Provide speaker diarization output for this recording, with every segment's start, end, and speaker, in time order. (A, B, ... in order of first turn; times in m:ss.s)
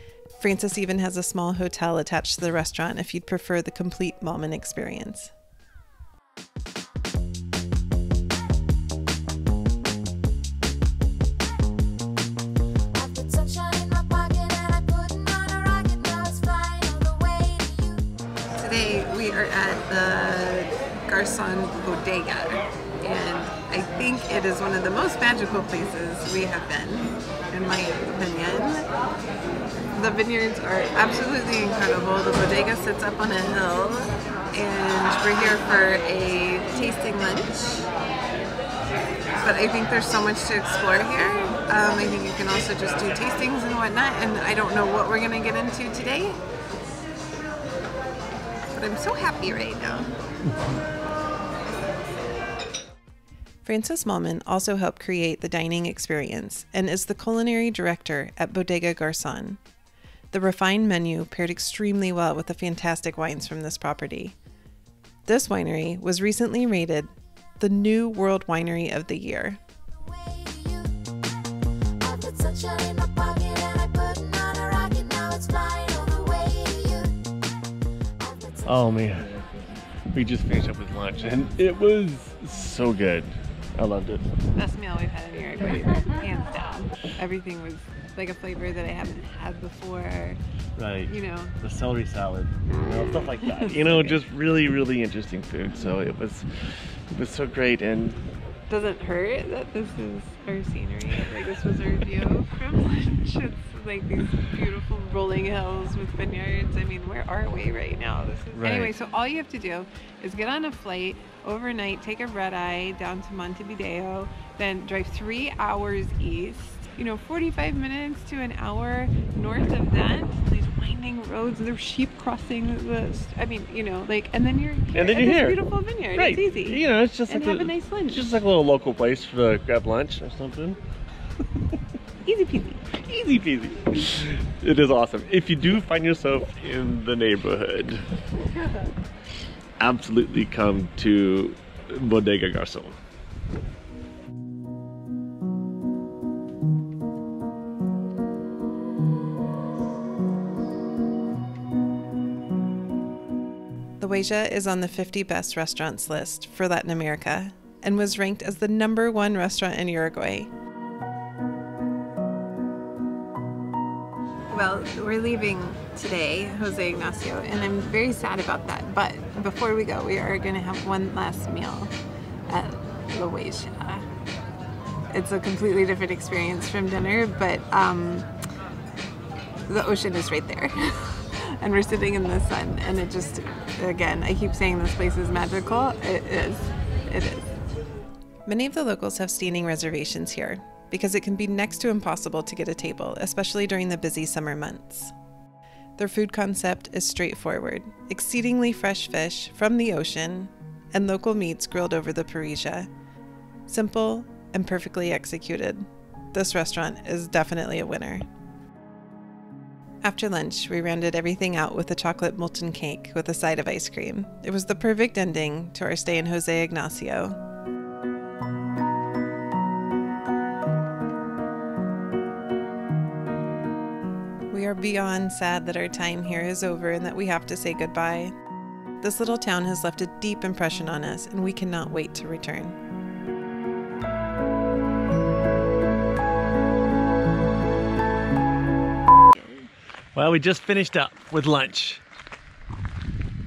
0:00.4-0:05.3 A
0:13.1-0:18.0 B
0:18.5-0:28.9 B
0:29.9-0:37.9 B
0:39.4-0:46.4 B
0:48.7-0:50.1 B
0:53.6-0:59.6 A
1:00.3-1:04.4 A
1:05.2-1:09.6 A
1:10.4-1:10.9 C
1:12.0-1:17.1 C
1:16.5-1:16.8 B
1:18.2-1:18.6 C
1:18.6-1:19.3 D
1:20.1-1:24.3 D
1:24.5-1:30.4 B
1:30.8-1:38.2 D
1:31.0-1:31.5 B
1:33.4-1:34.2 B
1:38.7-2:08.3 B
1:48.5-1:48.9 D
2:04.9-2:05.6 D
2:06.2-2:10.8 D
2:12.2-2:13.1 B
2:13.1-2:18.0 D
2:19.8-2:22.9 D
2:34.0-2:40.5 A
2:44.5-2:51.9 B
2:52.5-2:54.0 B
2:55.1-2:58.3 B
2:59.7-3:07.5 B
3:08.4-3:15.1 A
3:16.0-3:22.9 A
3:23.7-3:28.2 A
3:30.0-3:37.4 A
3:44.5-3:48.3 A
3:49.0-3:52.8 A
4:00.1-4:02.0 D